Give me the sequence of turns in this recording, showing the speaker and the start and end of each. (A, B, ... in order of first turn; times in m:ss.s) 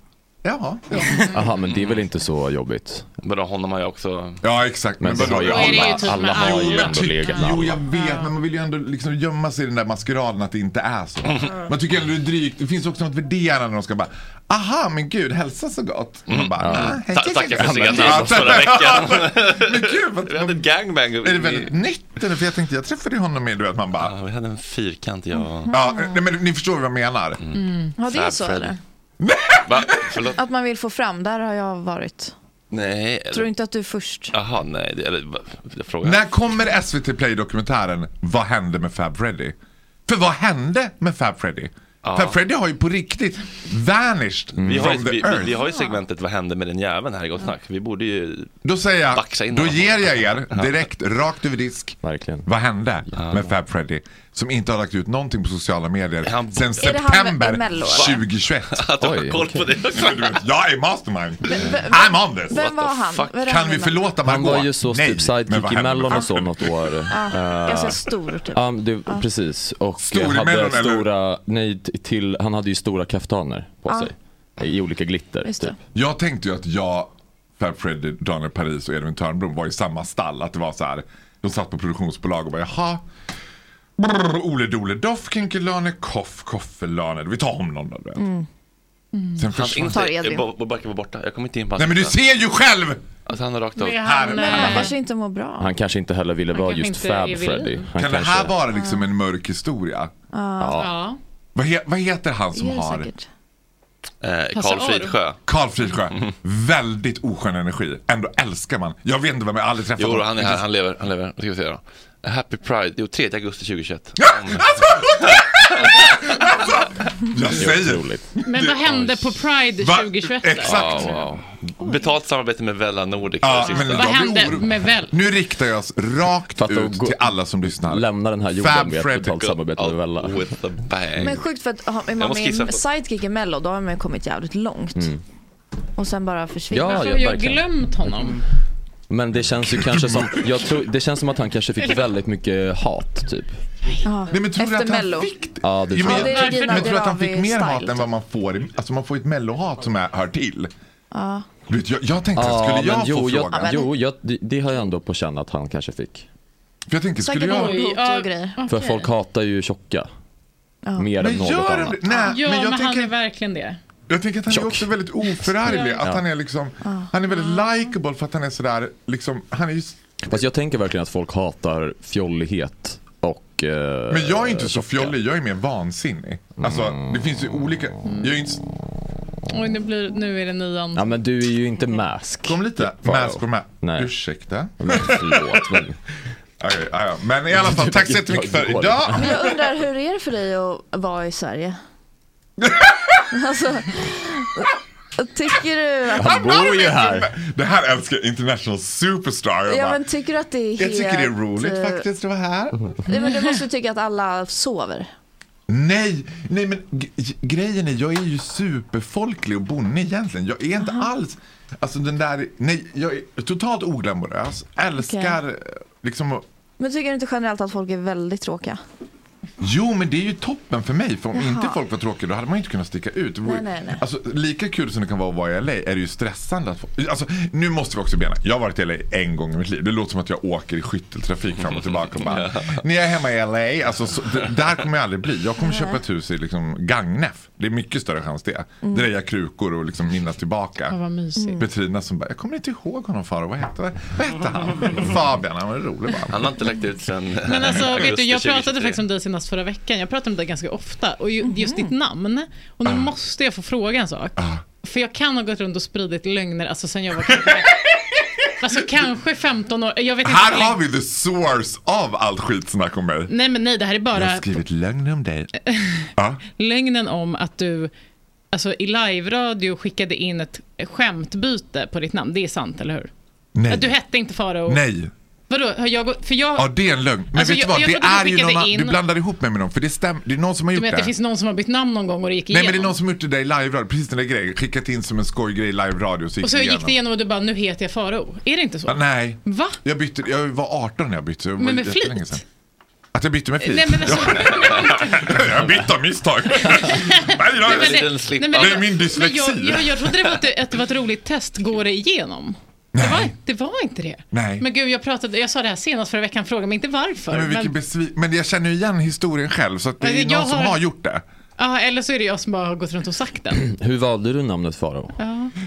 0:00.4-0:01.2 A
0:00.9-0:01.3 B
0:01.2-0:03.1 C
0:01.6-0:02.0 D
0:03.2-0:04.4 D
0:04.4-0:20.6 A
0:05.0-0:07.9 C
0:05.2-0:08.3 B
0:11.2-0:11.6 D
0:16.3-0:21.7 D
0:16.6-0:18.6 C
0:21.2-0:24.1 A
0:24.0-0:25.7 D
0:25.4-0:26.2 E
0:25.7-0:27.4 A
0:27.4-0:28.8 D
0:27.5-0:27.9 B
0:28.0-0:28.8 E
0:29.2-0:30.1 A
0:29.6-0:30.4 D
0:30.4-0:32.3 E
0:32.7-0:33.5 D
0:33.3-0:34.3 E
0:34.3-0:36.4 D
0:36.0-0:39.5 A
0:40.1-0:45.5 A
0:42.0-0:42.4 D
0:44.6-0:44.9 C
0:44.6-0:48.5 D
0:45.5-0:46.0 E
0:48.6-0:58.8 A
0:49.1-0:50.8 D
0:52.0-0:52.5 C
0:53.1-0:53.5 C
0:53.2-0:53.4 D
0:56.2-0:57.0 D
0:56.8-0:58.2 E
0:57.8-1:00.4 D
0:59.0-0:59.8 C
0:59.9-1:02.6 A
1:01.4-1:04.1 E
1:01.5-1:02.0 D
1:02.5-1:03.5 D
1:03.5-1:06.7 A
1:04.2-1:15.7 C
1:07.1-1:09.3 E
1:10.0-1:11.1 A
1:15.4-1:15.8 E
1:15.9-1:23.0 A
1:24.0-1:28.2 A
1:28.2-1:28.4 E
1:29.1-1:29.5 B
1:29.4-1:30.0 A
1:29.5-1:32.2 D
1:29.9-1:30.5 E
1:31.8-1:33.0 A
1:33.2-1:34.8 D
1:33.8-1:34.9 B
1:34.0-1:34.8 A
1:34.3-1:35.7 E
1:35.6-1:38.6 C
1:36.5-1:37.9 B
1:37.9-1:40.1 A
1:38.7-1:39.1 E
1:40.3-1:40.9 E
1:40.6-1:40.9 C
1:40.8-1:41.2 B
1:41.5-1:43.1 A
1:42.5-1:43.2 E
1:44.2-1:45.4 D
1:44.5-1:45.2 B
1:45.5-1:50.6 A
1:50.0-1:56.2 D
1:54.2-1:59.0 A
1:57.4-1:58.3 C
1:58.4-2:01.2 B
1:59.8-2:01.2 A
2:00.6-2:04.2 D
2:03.4-2:09.3 A
2:03.6-2:05.2 B
2:06.5-2:10.4 C
2:09.3-2:11.4 D
2:11.2-2:15.2 E
2:12.2-2:12.8 D
2:14.9-2:15.2 C
2:16.0-2:17.1 E
2:16.7-2:18.4 C
2:16.8-2:18.4 B
2:19.1-2:23.6 C
2:19.8-2:20.4 A
2:24.0-2:25.3 E
2:24.3-2:30.7 A
2:25.6-2:26.5 C
2:25.9-2:28.1 E
2:26.1-2:26.9 B
2:31.1-2:31.5 E
2:31.7-2:33.8 A
2:32.3-2:36.3 C
2:33.5-2:33.9 E
2:36.9-2:37.8 A
2:37.2-2:38.6 E
2:37.4-2:39.1 B
2:38.7-2:40.1 C
2:40.8-2:41.1 E
2:41.0-2:42.1 C
2:41.2-2:43.1 A
2:42.1-2:43.8 B
2:44.1-2:50.0 A
2:44.5-2:44.9 C
2:45.6-2:46.1 B
2:46.8-2:47.1 E
2:47.3-2:47.9 B
2:50.2-2:55.2 C
2:54.1-2:58.6 A
2:56.6-2:57.7 C
2:58.0-2:58.3 B
2:59.5-3:01.1 B
3:00.9-3:04.1 C
3:02.4-3:05.8 A
3:04.8-3:06.0 C
3:06.6-3:09.6 A
3:07.5-3:09.4 C
3:09.1-3:11.8 E
3:12.6-3:13.3 A
3:13.3-3:16.7 E
3:16.2-3:17.3 C
3:16.2-3:20.0 A
3:19.7-3:22.0 E
3:20.8-3:22.8 A
3:23.1-3:25.1 E
3:25.7-3:36.4 A
3:30.8-3:31.1 E
3:35.0-3:35.4 E
3:36.8-3:38.8 E
3:39.6-4:01.0 A
3:41.3-3:41.8 E
3:43.4-3:44.0 E
3:51.7-3:52.8 D
3:55.6-3:56.0 E
3:58.8-3:59.1 E
4:00.9-4:01.6 B
4:01.4-4:01.6 E
4:01.6-4:06.4 A
4:06.3-4:09.0 D
4:07.4-4:17.7 B
4:11.4-4:11.9 E
4:12.8-4:13.1 A
4:14.4-4:14.6 A
4:17.2-4:18.2 A
4:18.6-4:20.8 B
4:20.2-4:23.3 A
4:23.3-4:24.5 B
4:24.1-4:25.5 A
4:25.6-4:27.9 B
4:28.5-4:33.1 B
4:33.5-4:33.9 A
4:33.7-4:34.8 B
4:34.6-4:35.1 A
4:35.5-4:36.7 B
4:36.6-4:41.1 A
4:37.3-4:39.0 B
4:40.7-4:43.0 B
4:42.5-4:47.0 A
4:46.4-4:49.8 B
4:48.8-4:52.4 A
4:51.6-4:52.4 B
4:53.1-4:57.8 A
4:53.6-4:55.7 B
4:54.3-4:55.0 D
4:56.6-5:07.7 B
4:57.6-4:59.0 D
4:58.6-5:00.0 A
5:02.9-5:03.3 A
5:04.3-5:04.7 A
5:07.3-5:11.2 A
5:10.0-5:10.8 B
5:11.6-5:13.6 B
5:13.5-5:15.2 C
5:15.2-5:15.5 B